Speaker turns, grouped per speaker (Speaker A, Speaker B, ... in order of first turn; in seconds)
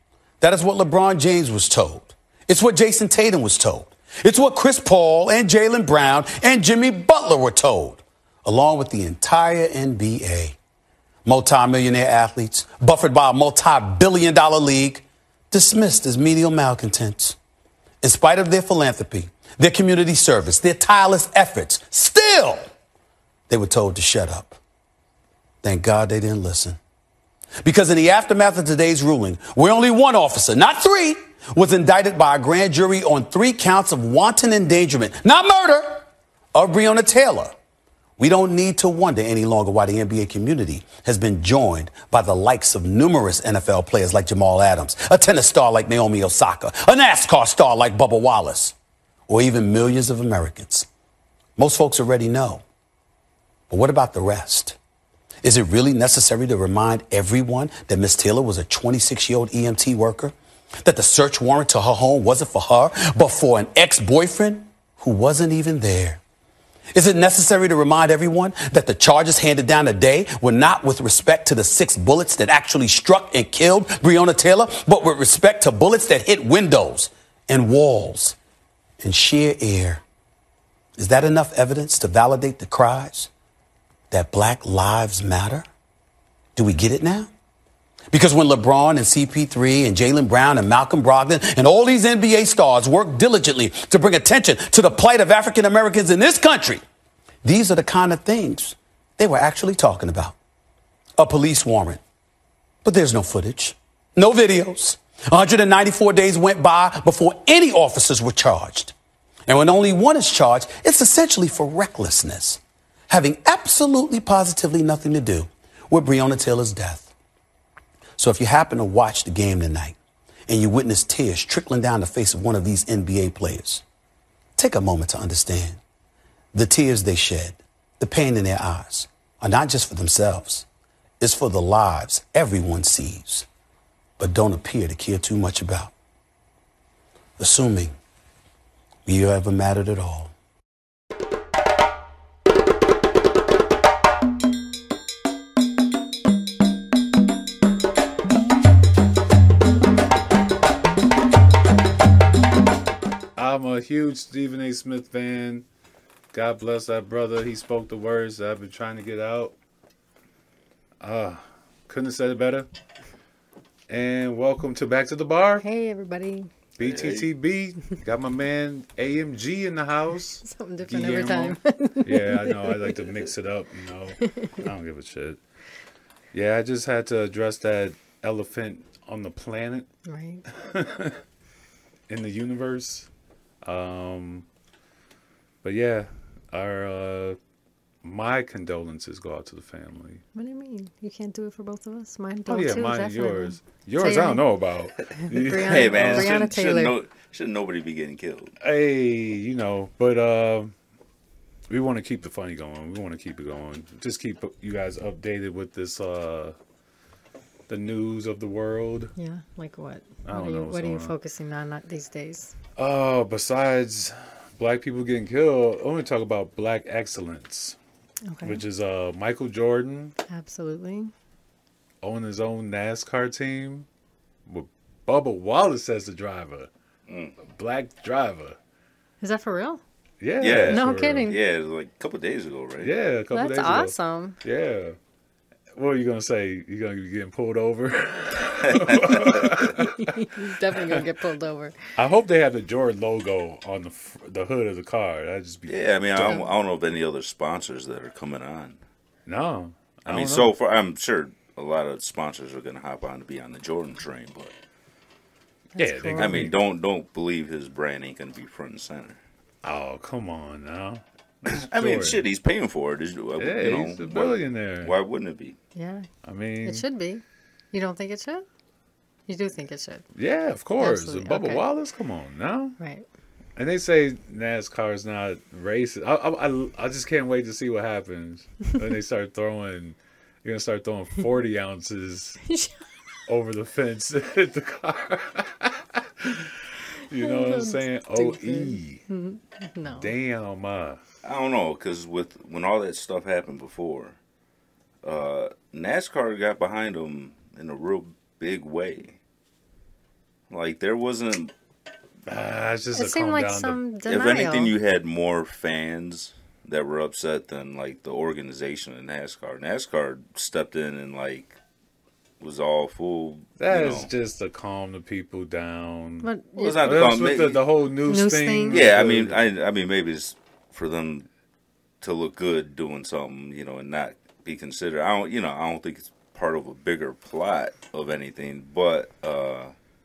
Speaker A: 0.4-10.6, 11.2-17.4, 18.0-22.7, 23.5-24.6, 25.6-26.8, 27.6-37.5, 38.2-48.7, 49.3-50.9, 51.6-52.6, 53.7-54.8, 55.4-66.2, 66.9-78.4, 79.0-80.0, 81.0-83.3, 84.1-85.7, 86.6-87.3, 88.1-96.8, 97.4-100.4, 101.2-102.0, 102.8-108.9, 109.5-117.1, 118.2-120.0, 120.5-123.8, 124.6-125.8, 126.5-130.7, 131.2-133.5, 134.2-135.9, 137.4-137.9, 139.1-140.3
Speaker B: 153.4-155.7, 156.3-159.6, 161.0-162.7, 163.9-165.7, 166.8-175.4, 176.3-179.9, 180.6-181.2, 182.1-183.1, 183.6-184.5, 185.6-187.4, 188.0-190.2, 192.5-196.4, 198.6-200.7, 201.7-206.6, 207.7-209.1, 210.2-211.1, 212.8-217.8, 218.4-220.2, 222.0-223.9, 224.5-226.7, 227.4-228.6, 230.2-231.3, 232.8-235.0, 235.8-240.3, 242.0-246.4, 249.3-250.5, 255.8-256.6, 259.6-262.2, 263.4-264.9, 266.2-266.9, 270.1-272.8, 273.6-282.4, 283.3-289.0, 290.0-291.0, 302.3-303.8, 313.6-319.4
Speaker C: 165.6-166.5, 170.4-173.1, 174.2-174.6, 180.1-180.4, 190.3-194.5, 195.2-196.9, 209.2-212.5, 218.3-218.6, 220.3-221.1, 229.2-229.8, 230.5-231.4, 233.3-234.4, 239.8-241.8, 246.2-246.5, 255.8-256.6, 265.8-266.1, 266.6-268.5, 269.3-270.1, 270.8-271.6, 272.8-273.1, 282.5-282.8, 287.1-290.1, 302.9-304.7, 316.2-316.9, 318.1-318.9
Speaker D: 166.8-167.3, 195.6-198.6, 227.1-227.4, 230.4-232.9, 238.6-239.7, 245.7-248.8, 250.1-254.5, 256.2-259.2, 261.5-265.6, 291.2-294.2, 295.0-299.2, 300.5-301.5, 304.1-311.6, 312.4-314.1, 316.6-317.6, 318.7-321.3, 322.0-329.7